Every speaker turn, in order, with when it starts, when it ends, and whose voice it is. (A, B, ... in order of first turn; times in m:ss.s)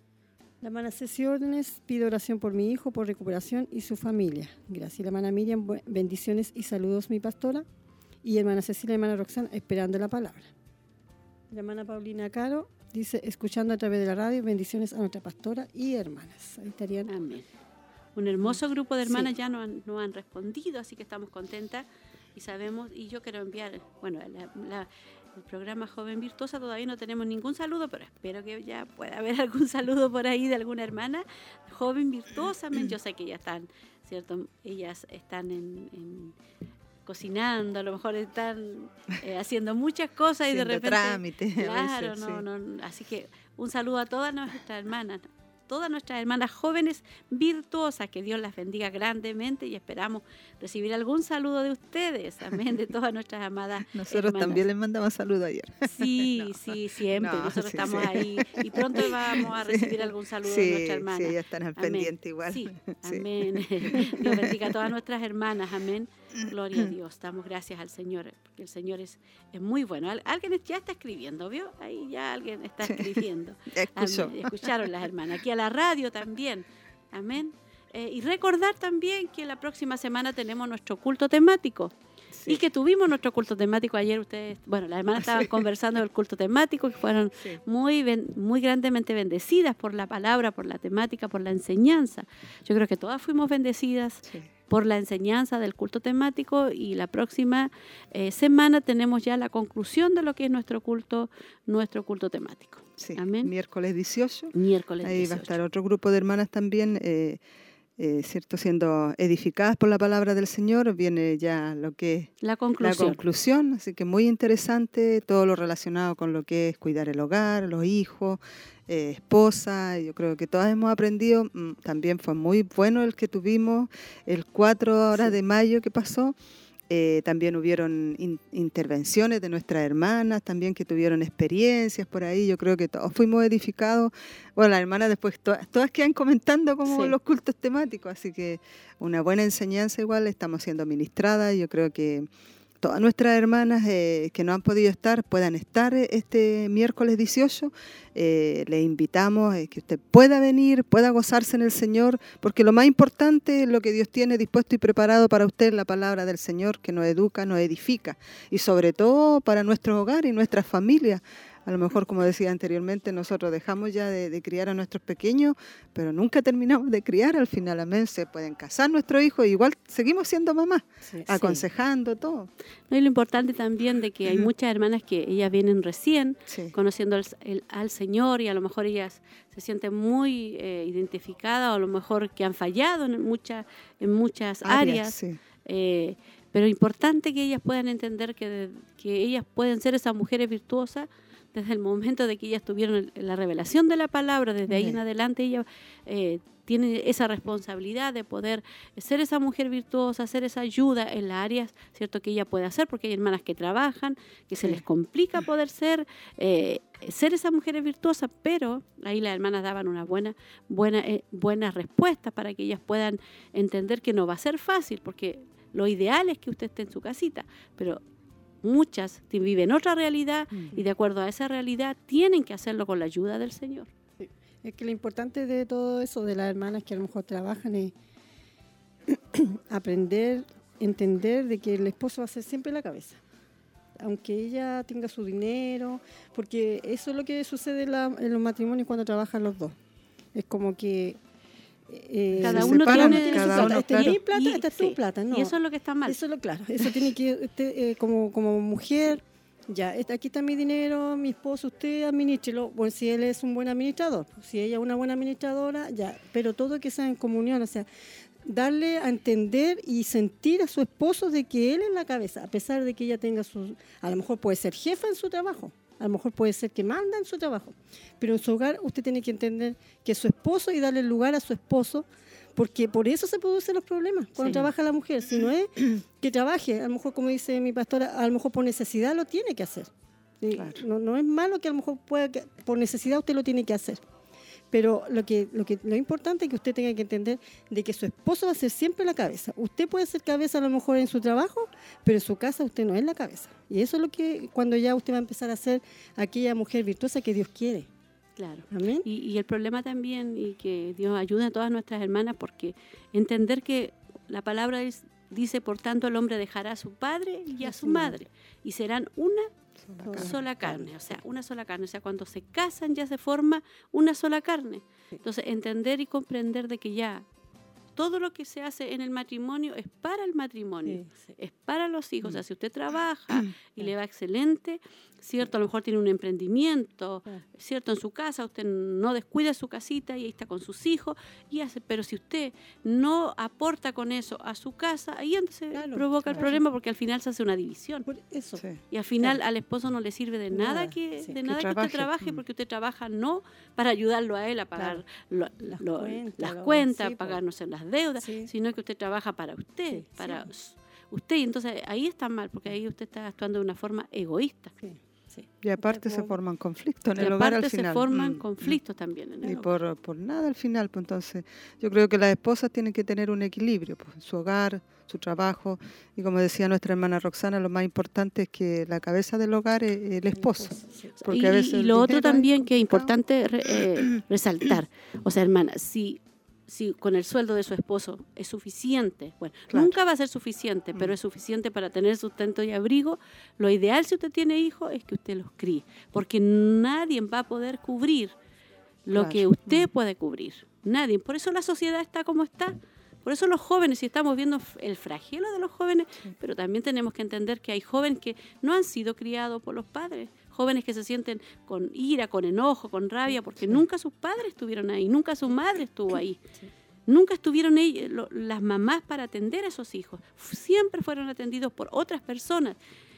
0:00.6-0:07.6 A
0:08.2-0:10.5 A
0:11.5-0:17.1 A
0:17.1-0:17.5 B
0:18.2-0:36.4 B
0:19.0-0:19.3 A
0:37.1-0:54.6 B
0:40.5-0:42.4 C
0:53.9-0:56.6 C
0:55.8-1:21.9 B
0:57.2-1:04.6 C
1:06.4-1:06.9 C
1:12.8-1:13.1 C
1:13.7-1:14.7 C
1:22.3-1:22.6 C
1:22.5-1:43.5 B
1:25.2-1:25.6 C
1:43.0-1:47.4 C
1:44.5-1:45.6 B
1:48.0-1:52.3 C
1:52.4-1:53.2 B
1:52.8-2:06.4 C
2:06.9-2:22.3 C
2:16.9-2:17.2 A
2:22.8-2:52.5 C
2:51.3-2:51.6 B
2:52.9-3:38.0 B
2:56.5-2:56.7 C
3:04.6-3:05.4 C
3:14.7-3:15.0 C
3:38.6-3:43.9 B
3:44.2-3:47.9 A
3:49.1-3:53.2 A
3:54.0-3:59.8 A
4:00.4-4:01.2 A
4:01.9-4:17.9 A
4:02.4-4:04.2 C
4:02.4-4:06.2 B
4:18.4-4:44.0 A
4:40.5-4:40.8 C
4:44.7-4:57.9 A
4:58.4-5:09.5 B
4:58.7-4:59.1 A
5:07.6-5:08.2 A
5:09.8-5:10.3 C
5:10.0-5:11.2 A
5:10.1-5:17.3 B
5:18.0-5:38.1 B
5:20.9-5:21.4 A
5:35.7-5:36.6 A
5:38.1-5:38.6 A
5:38.9-5:54.7 B
5:40.5-5:41.4 A
5:41.5-5:42.4 C
5:44.8-5:45.0 A
5:45.6-5:47.4 A
5:48.2-5:48.5 A
5:49.9-5:50.4 A
5:54.8-5:56.4 A
5:55.6-5:58.8 C
5:57.2-5:59.7 B
5:59.4-6:13.1 C
6:10.3-6:11.1 A
6:11.2-6:28.4 B
6:29.1-6:46.4 B
6:29.1-6:29.9 C
6:47.1-6:52.8 B